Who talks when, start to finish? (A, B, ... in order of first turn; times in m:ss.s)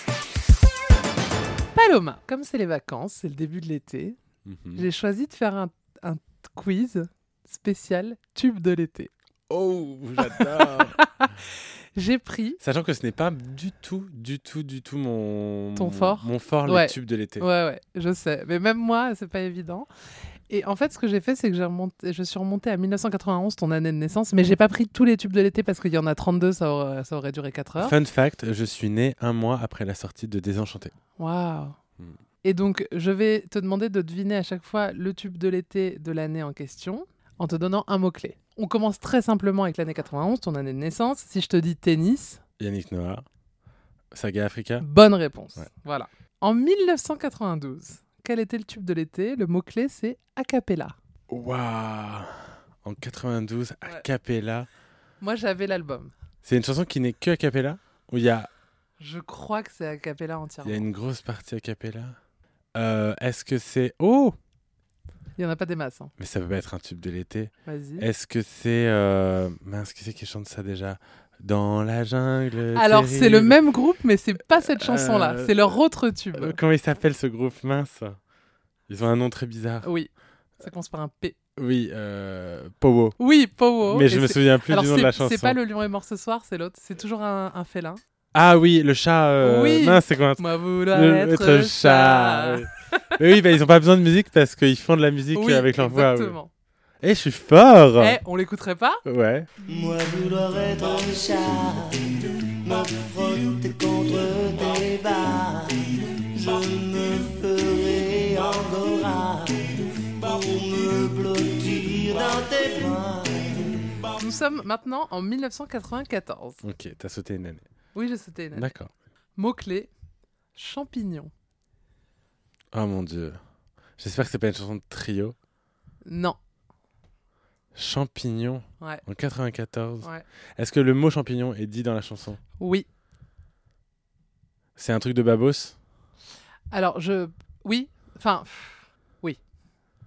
0:01.8-0:04.2 A
0:04.4-0:04.8 B
0:04.8-0:09.1 A
0:09.5-0:11.0 B
0:10.2-0:11.3 A
0:12.0-0:12.6 A
0:12.6-0:17.5 B
0:15.8-0:19.9 A
0:20.5-0:28.0 A
0:27.8-0:30.9 B
0:31.2-0:31.8 A
0:32.4-0:42.4 A
0:42.6-0:43.3 B
0:44.1-0:44.9 B
0:44.8-0:51.0 A
0:51.3-0:54.7 B
0:55.2-0:56.1 A
0:56.4-0:58.5 B
0:59.0-1:00.9 A
1:00.6-1:02.2 B
1:02.8-1:04.4 B
1:05.4-1:06.1 A
1:06.2-1:13.6 B
1:07.6-1:08.1 A
1:12.7-1:16.6 A
1:14.6-1:15.8 B
1:16.3-1:18.2 B
1:18.9-1:19.9 B
1:19.8-1:21.4 A
1:21.6-1:23.2 B
1:23.2-1:28.0 A
1:23.9-1:25.6 B
1:28.3-1:36.4 B
1:29.4-1:33.1 A
1:35.3-1:36.5 A
1:37.0-1:38.2 B
1:38.0-1:39.0 A
1:39.0-1:39.5 B
1:39.7-1:54.1 C
1:54.2-1:56.6 A
1:56.6-1:57.7 B
1:57.9-1:58.7 A
1:58.6-1:58.9 B
1:59.4-1:59.9 A
2:00.6-2:01.3 A
2:02.7-2:03.4 B
2:04.0-2:05.4 B
2:06.0-2:06.4 A
2:07.7-2:12.4 B
2:12.6-2:12.9 A
2:14.8-2:15.8 B
2:16.7-2:19.4 A